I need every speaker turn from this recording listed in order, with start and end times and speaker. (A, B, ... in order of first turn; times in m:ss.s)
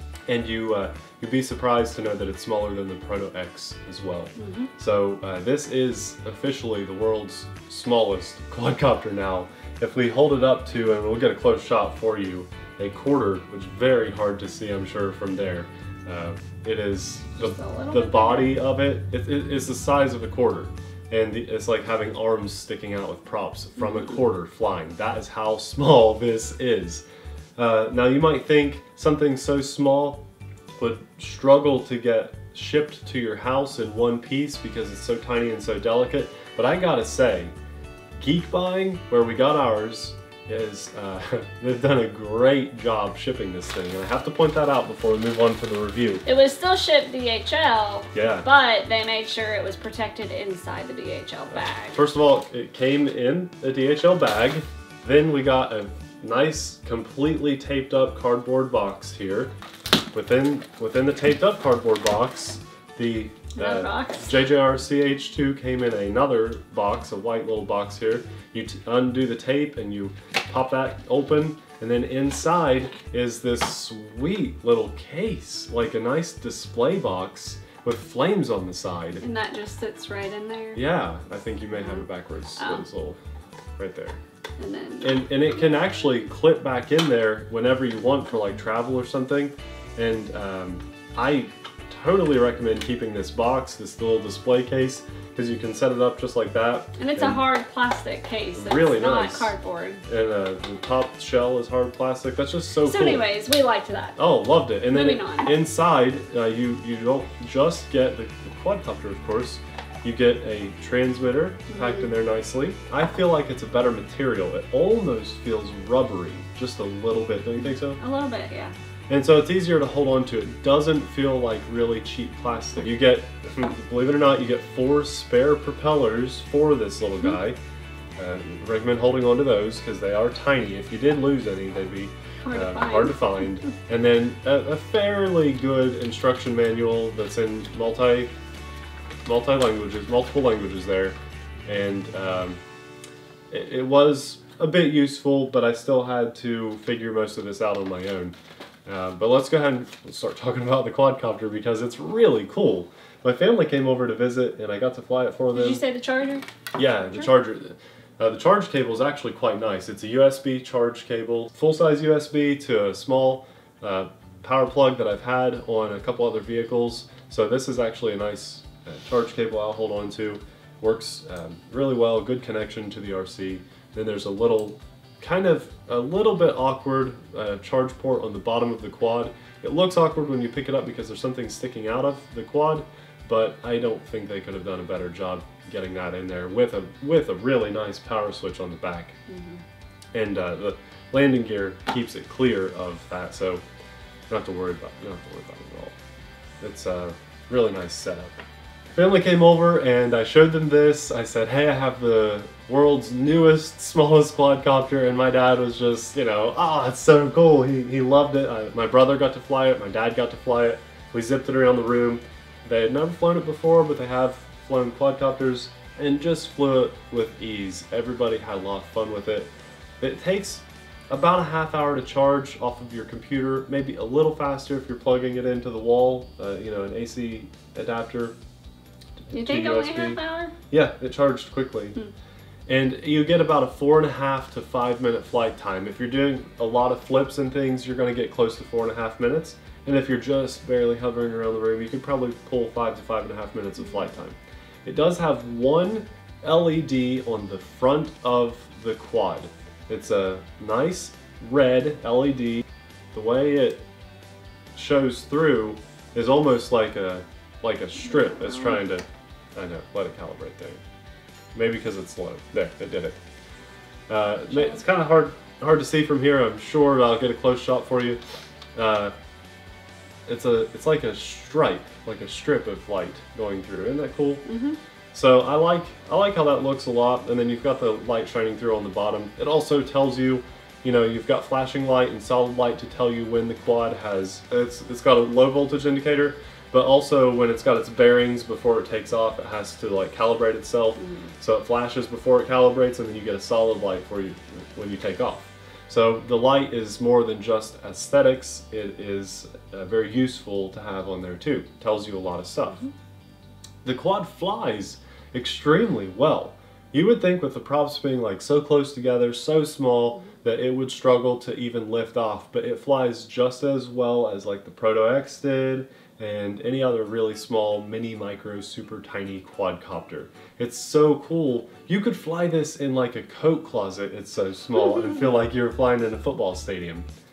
0:00.3-0:27.0 A
0:04.4-0:04.7 B
0:17.4-0:18.6 B
0:27.6-0:30.2 A
0:30.8-0:37.5 A
0:38.1-0:46.2 A
0:46.2-0:52.0 B
0:48.1-0:48.4 A
0:51.5-0:59.5 A
1:00.1-1:19.2 A
1:03.5-1:04.4 B
1:19.2-1:20.8 B
1:20.7-1:23.2 A
1:21.8-1:22.0 B
1:22.6-1:22.8 B
1:23.8-1:24.2 A
1:24.6-1:25.2 B
1:25.0-1:37.4 A
1:37.0-1:40.0 B
1:38.6-1:39.5 A
1:40.1-1:43.3 A
1:42.8-1:44.2 B
1:44.2-1:58.0 A
1:44.9-1:45.5 B
1:51.7-1:52.1 B
1:58.0-1:58.7 B
1:59.1-2:07.6 A
2:08.2-2:18.3 A
2:12.4-2:13.4 B
2:19.2-2:22.6 A
2:23.5-2:28.3 A
2:28.8-2:35.8 A
2:35.5-2:36.4 B
2:36.7-3:09.2 A
3:09.3-3:09.6 B
3:10.1-3:13.6 A
3:14.3-3:15.9 A
3:16.6-3:18.3 A
3:18.9-3:48.4 A
3:49.3-3:52.0 A
3:49.3-3:50.5 B
3:52.7-4:13.8 A
4:14.7-4:20.8 A
4:21.5-4:23.2 A
4:24.1-4:28.2 A
4:24.5-4:24.8 B
4:28.8-4:29.1 A
4:30.3-4:34.4 A
4:34.4-4:34.8 B
4:35.1-5:02.9 A
4:51.0-4:51.3 B
5:03.8-5:27.1 A